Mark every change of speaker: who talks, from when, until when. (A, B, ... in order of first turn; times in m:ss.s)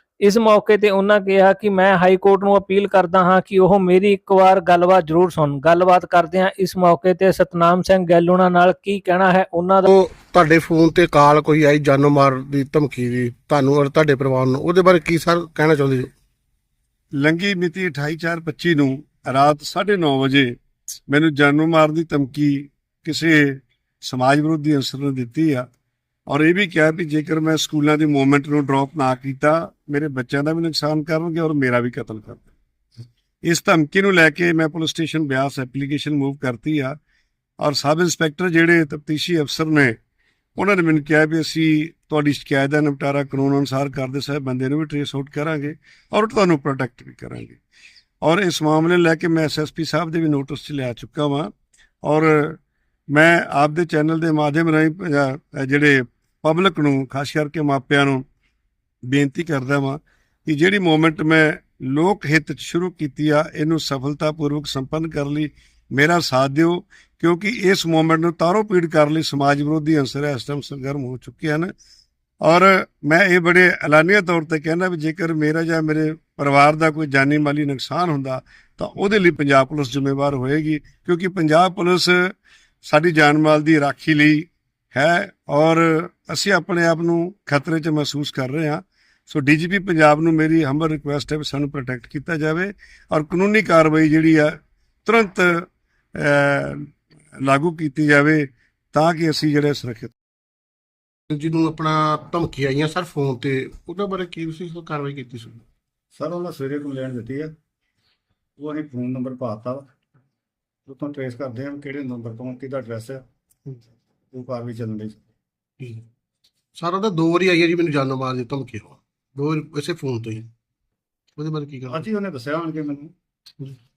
0:00.2-0:09.9 A
0:09.9-0:16.1 B
0:17.2-0:20.6 C
0:21.1-0:25.7 C
0:26.3-0:32.5 C
0:33.4-0:37.0 C
0:37.6-0:40.0 C
0:40.6-0:47.6 C
0:48.2-0:51.5 C
0:52.0-0:52.6 C
0:53.1-0:58.2 C
0:59.1-1:11.7 C
1:12.4-1:40.1 C
1:41.3-1:45.6 B
1:46.1-1:47.5 D
1:48.6-1:49.9 D
1:50.9-1:53.2 D
1:54.3-1:55.2 D
1:55.8-1:56.1 B
1:56.8-2:00.5 B
2:01.4-2:02.1 B
2:01.9-2:03.1 D